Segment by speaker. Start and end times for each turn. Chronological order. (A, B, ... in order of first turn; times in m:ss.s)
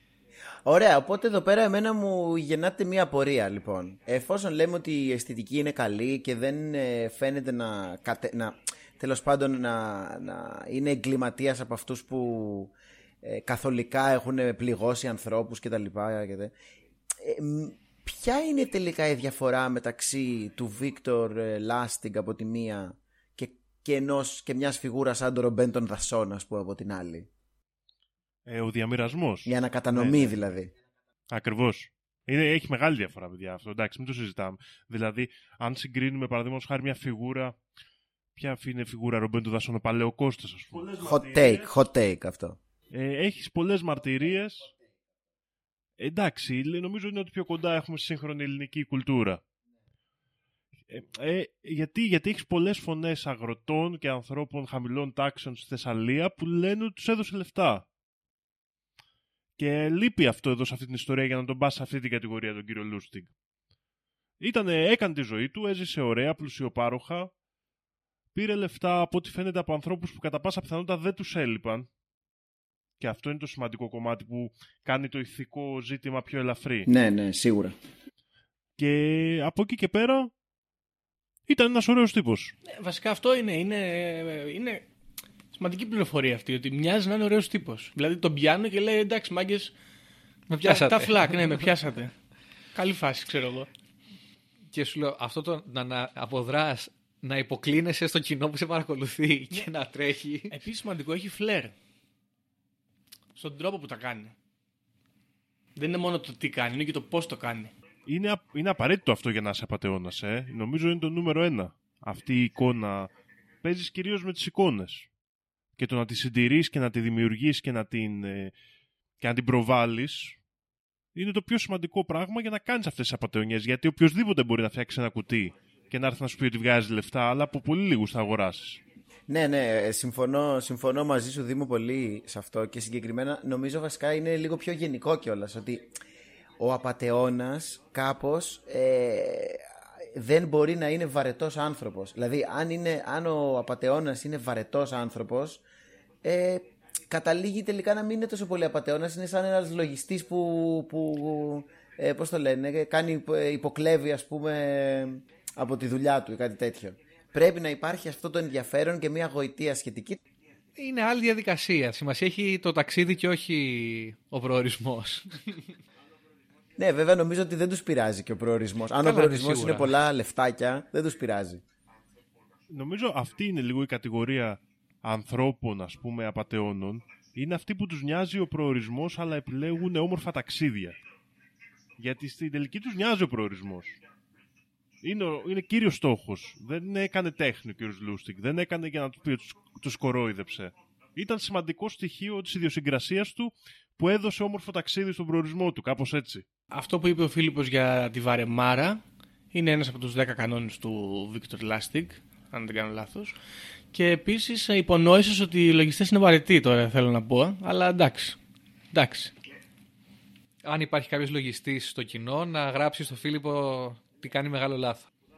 0:00.6-0:16.5 A
0:17.2-0:27.3 A
0:28.4-0:30.3 B
0:29.4-0:30.7 A
0:31.3-0:37.6 B
0:38.4-0:41.7 B
0:41.0-0:42.6 A
0:42.9-0:44.7 B
0:46.0-0:49.4 B
0:50.9-0:57.9 B
0:59.6-1:03.3 B
1:04.4-1:07.3 B
1:08.3-1:11.9 B
1:13.0-1:16.9 B
1:16.9-1:17.7 A
1:18.8-1:20.3 B
1:21.5-1:22.5 B
1:22.7-1:24.8 C
1:25.6-1:29.7 C
1:30.5-1:31.6 D
1:30.6-1:32.1 C
1:32.7-1:33.7 C
1:34.7-1:40.5 D
1:40.5-1:41.7 C
1:43.4-1:44.3 C
1:45.8-1:47.7 C
1:48.0-1:53.1 B
1:53.6-1:55.1 B
1:55.8-1:58.5 B
1:59.2-2:00.4 B
2:01.1-2:08.8 B
2:09.3-2:15.9 A
2:16.6-2:19.6 A
2:20.1-2:25.6 A
2:26.2-2:40.2 A
2:40.8-2:45.4 D
2:46.8-2:51.6 A
2:49.0-2:50.0 D
2:52.7-3:01.0 B
3:02.0-3:04.0 B
3:05.0-3:16.4 B
3:16.7-3:19.0 C
3:19.5-3:23.4 C
3:23.9-3:28.4 C
3:28.9-3:29.3 C
3:30.6-3:35.1 D